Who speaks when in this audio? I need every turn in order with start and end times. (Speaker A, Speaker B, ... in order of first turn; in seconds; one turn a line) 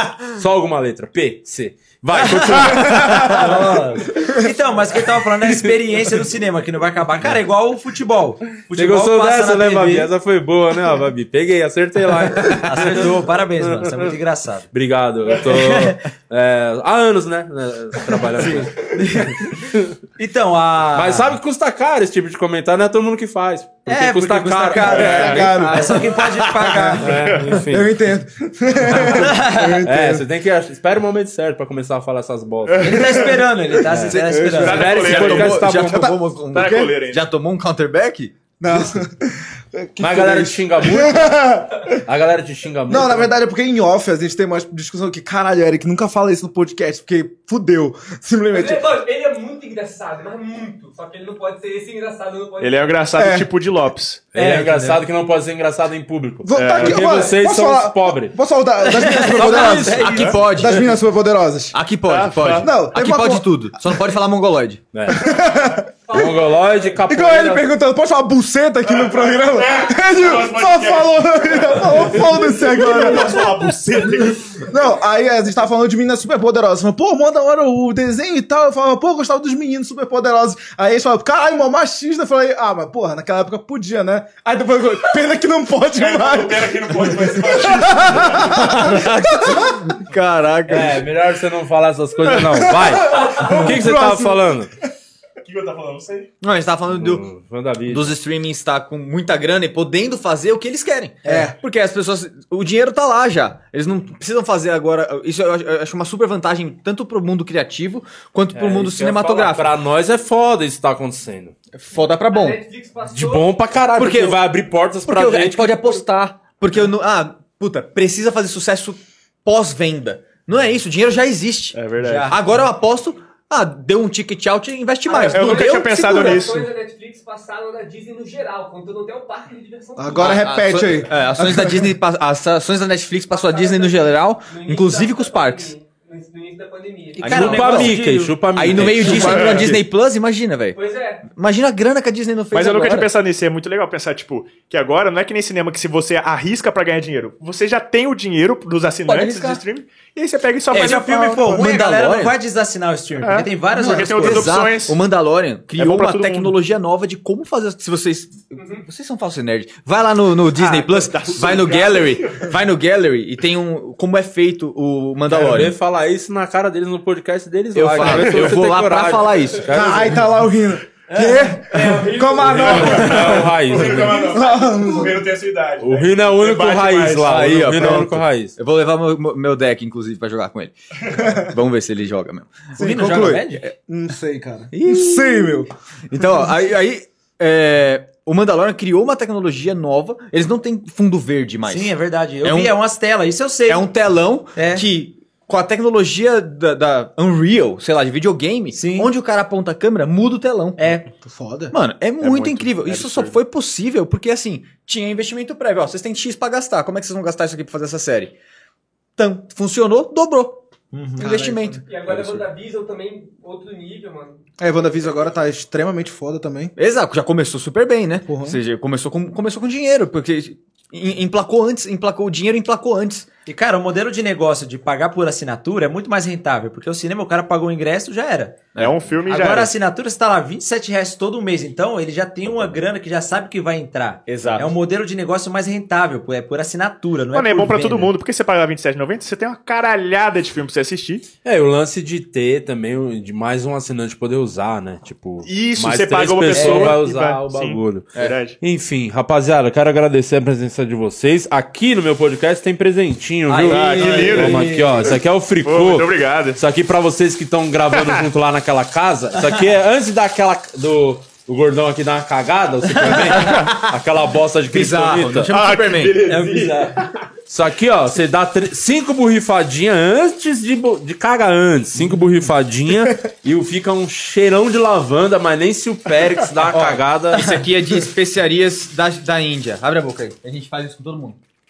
Speaker A: 0.2-3.8
Speaker B: 2.3-2.6
Speaker C: 2.6-4.5
Speaker D: 3.0-3.2
Speaker B: 3.3-10.1
Speaker A: 8.7-13.1
Speaker B: 12.5-14.7
Speaker A: 13.6-14.1
Speaker A: 14.7-20.0
Speaker B: 15.4-16.0
Speaker B: 18.3-19.6
Speaker B: 20.2-21.4
Speaker A: 20.9-25.5
Speaker B: 23.9-27.2
Speaker C: 24.8-30.2
Speaker E: 24.9-25.4
Speaker A: 27.0-27.9
Speaker E: 27.2-27.6
Speaker B: 29.0-29.8
Speaker A: 29.8-33.1
Speaker E: 32.7-33.5
Speaker B: 32.8-34.8
Speaker C: 33.9-36.1
Speaker E: 34.5-35.7
Speaker A: 34.6-36.1
Speaker D: 35.0-39.0
Speaker E: 36.5-37.2
Speaker C: 38.6-42.0
Speaker A: 40.0-43.3
Speaker C: 42.9-49.0
Speaker F: 48.5-53.0
Speaker E: 52.6-54.2
Speaker C: 53.1-53.5
Speaker A: 54.3-58.4
Speaker B: 54.3-55.0
Speaker C: 56.4-61.7
Speaker E: 56.5-57.2
Speaker B: 58.8-60.4
Speaker A: 59.3-60.4
Speaker D: 59.5-60.9
Speaker D: 61.7-64.8
Speaker E: 62.1-62.7
Speaker C: 62.6-63.7
Speaker A: 64.9-65.3
Speaker C: 65.1-65.9
Speaker F: 66.1-66.8
Speaker A: 66.1-67.7
Speaker C: 67.1-90.0
Speaker E: 69.0-74.7
Speaker E: 86.0-88.7
Speaker D: 88.5-91.0
Speaker A: 90.7-94.7
Speaker C: 92.2-94.5
Speaker E: 95.4-96.3
Speaker D: 96.4-97.2
Speaker A: 96.9-98.1
Speaker D: 97.8-109.7
Speaker B: 101.2-101.5
Speaker C: 101.2-101.5
Speaker A: 108.5-111.5
Speaker D: 111.7-112.6
Speaker F: 112.2-113.5
Speaker A: 113.1-116.0
Speaker D: 113.9-114.4
Speaker D: 115.0-125.8
Speaker E: 121.7-122.4
Speaker B: 122.0-122.3
Speaker F: 125.1-130.8
Speaker E: 125.2-126.6
Speaker C: 125.7-126.6
Speaker C: 130.0-131.9
Speaker D: 130.2-135.7
Speaker F: 133.3-137.3
Speaker D: 137.2-138.0
Speaker B: 137.2-138.4
Speaker A: 137.2-139.8
Speaker D: 138.5-143.1
Speaker E: 139.2-139.7
Speaker F: 140.7-141.2
Speaker E: 142.5-151.7
Speaker D: 149.1-149.6
Speaker B: 150.7-154.6
Speaker D: 151.4-152.3
Speaker E: 153.2-155.0
Speaker D: 153.8-165.7
Speaker E: 155.8-156.6
Speaker F: 158.6-158.8
Speaker E: 160.5-162.5
Speaker A: 165.3-170.2
Speaker D: 167.7-169.7
Speaker C: 169.7-173.4
Speaker F: 171.1-174.2
Speaker A: 172.4-174.3
Speaker E: 172.4-178.0
Speaker C: 174.3-175.2
Speaker A: 175.8-178.5
Speaker D: 177.2-180.7
Speaker D: 181.2-183.6
Speaker B: 182.8-183.7
Speaker C: 182.8-185.7
Speaker D: 184.7-192.8
Speaker B: 191.7-193.9
Speaker D: 193.6-201.1
Speaker B: 194.6-194.8
Speaker B: 198.7-199.1
Speaker B: 200.8-201.1
Speaker C: 201.1-201.7
Speaker D: 201.7-208.3
Speaker E: 202.2-203.3
Speaker D: 209.2-210.6
Speaker B: 210.9-211.3
Speaker D: 211.2-212.4
Speaker C: 211.2-211.8
Speaker F: 211.8-214.4
Speaker C: 214.6-216.7
Speaker D: 216.8-223.3
Speaker C: 218.3-218.6
Speaker B: 223.5-228.6
Speaker D: 228.7-229.0
Speaker E: 228.8-229.7
Speaker B: 229.3-238.1
Speaker D: 234.3-234.7
Speaker E: 234.4-234.7
Speaker E: 237.3-241.2
Speaker A: 241.4-248.1
Speaker E: 245.4-248.6
Speaker B: 246.5-247.0
Speaker A: 248.6-265.5
Speaker B: 253.5-255.1
Speaker E: 253.7-254.7
Speaker E: 255.6-256.6
Speaker E: 257.9-258.2
Speaker B: 263.0-263.3
Speaker D: 264.7-266.2
Speaker E: 265.5-267.1
Speaker B: 266.2-267.0
Speaker A: 267.5-277.6
Speaker D: 276.7-281.4